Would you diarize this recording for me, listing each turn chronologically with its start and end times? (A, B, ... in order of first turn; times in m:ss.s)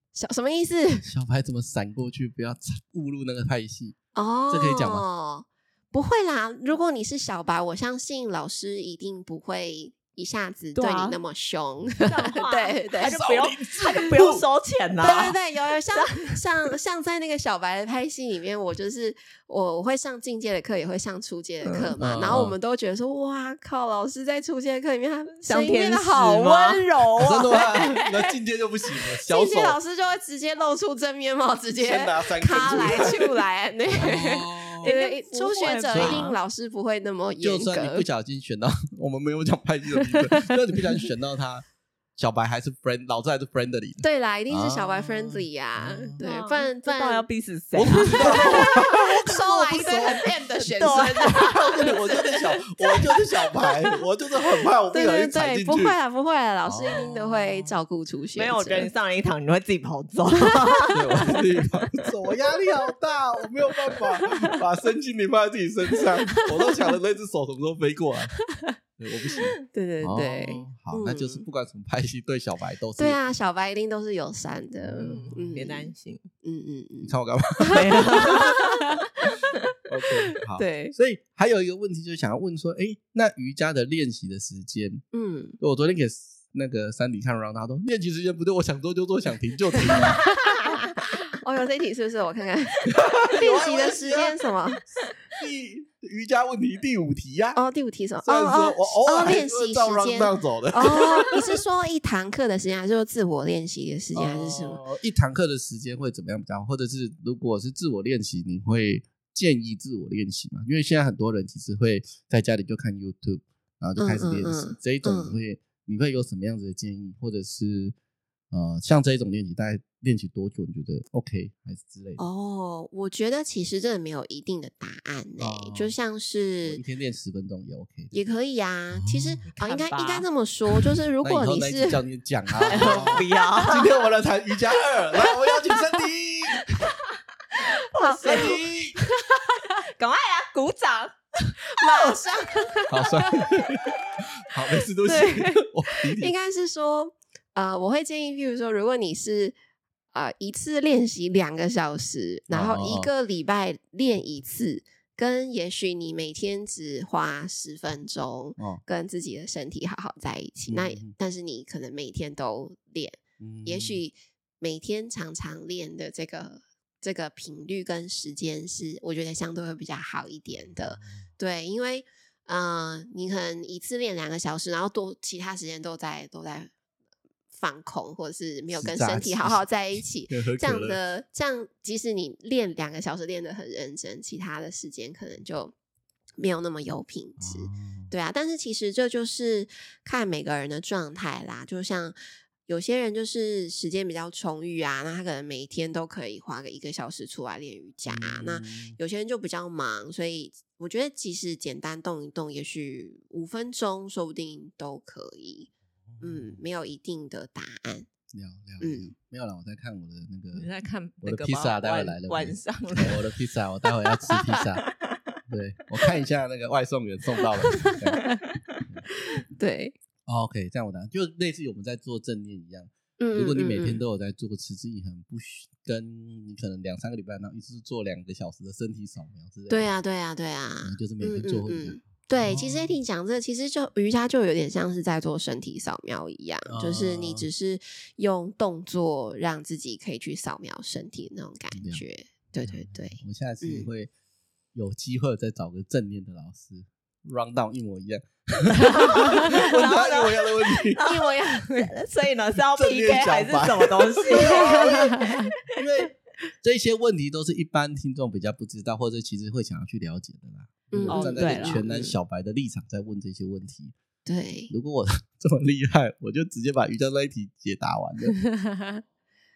0:00.1-0:01.1 A
0:01.0-0:04.0 B
0:04.1-0:13.2 A
0:04.5-0:05.0 B
0:10.7-0:11.2 C
0:12.0-0:15.4 C
0:13.0-0:14.4 B
0:15.0-0:28.3 A
0:16.0-0:16.3 C
0:21.6-0:21.9 C
0:22.0-0:22.6 B
0:25.4-0:27.6 C
0:27.2-0:29.8 B
0:29.3-0:38.0 A
0:31.8-0:33.3 B
0:33.9-0:34.9 B
0:34.8-0:36.4 C
0:35.9-0:36.3 B
0:37.4-0:41.6 B
0:42.2-0:46.2 B
0:44.0-0:47.2 A
0:46.2-0:48.6 C
0:47.7-0:50.3 B
0:48.0-0:52.0 A
0:50.6-0:51.9 C
0:51.2-0:56.0 B
0:53.1-0:53.8 A
0:54.9-0:58.9 A
0:56.6-0:57.7 B
0:58.3-1:01.3 C
1:00.9-1:08.3 B
1:09.0-1:13.2 B
1:09.7-1:11.4 A
1:13.0-1:15.9 A
1:14.8-1:15.6 B
1:15.0-1:16.3 C
1:16.4-1:18.7 A
1:17.0-1:18.5 B
1:17.7-1:19.4 C
1:19.9-1:25.0 B
1:20.6-1:20.9 A
1:25.1-1:25.6 A
1:25.6-1:30.2 B
1:29.9-1:34.8 A
1:32.9-1:34.4 B
1:35.3-1:37.6 B
1:37.5-1:44.8 A
1:38.2-1:41.6 B
1:44.1-1:57.9 B
1:54.0-1:55.4 A
1:58.5-2:02.2 B
2:02.2-2:06.8 A
2:05.4-2:05.9 B
2:06.6-2:08.1 B
2:08.1-2:13.2 A
2:08.9-2:09.4 B
2:09.5-2:10.3 C
2:11.2-2:16.7 B
2:12.7-2:13.9 C
2:17.6-2:18.6 C
2:18.0-2:18.6 A
2:18.2-2:19.0 B
2:19.2-2:19.7 A
2:19.4-2:22.6 C
2:21.7-2:23.5 A
2:22.9-2:26.3 B
2:25.0-2:29.5 A
2:25.1-2:25.3 C
2:30.1-2:56.7 A
2:32.5-2:33.1 B
2:40.6-2:41.1 B
2:43.4-2:44.0 B
2:50.7-2:51.2 B
2:57.5-3:05.7 A
2:58.7-3:01.0 B
3:06.4-3:12.2 A
3:07.4-3:08.1 B
3:12.7-3:28.1 A
3:18.1-3:19.0 B
3:26.1-3:26.6 B
3:28.3-3:30.7 B
3:28.8-3:29.1 A
3:30.5-3:33.3 C
3:31.2-3:34.8 B
3:34.3-3:35.2 C
3:35.5-3:38.3 B
3:37.7-3:38.3 A
3:38.3-3:38.8 C
3:39.2-3:40.0 A
3:40.2-3:49.9 B
3:43.2-3:44.0 A
3:49.7-4:03.9 A
3:50.8-3:52.9 B
3:56.7-3:57.5 B
4:01.7-4:02.0 B
4:02.6-4:04.1 B
4:04.7-4:11.0 B
4:08.9-4:15.5 C
4:11.0-4:11.9 A
4:12.7-4:23.9 B
4:14.5-4:15.5 A
4:20.9-4:22.2 A
4:21.1-4:21.8 C
4:24.2-4:24.7 A
4:24.7-4:28.4 B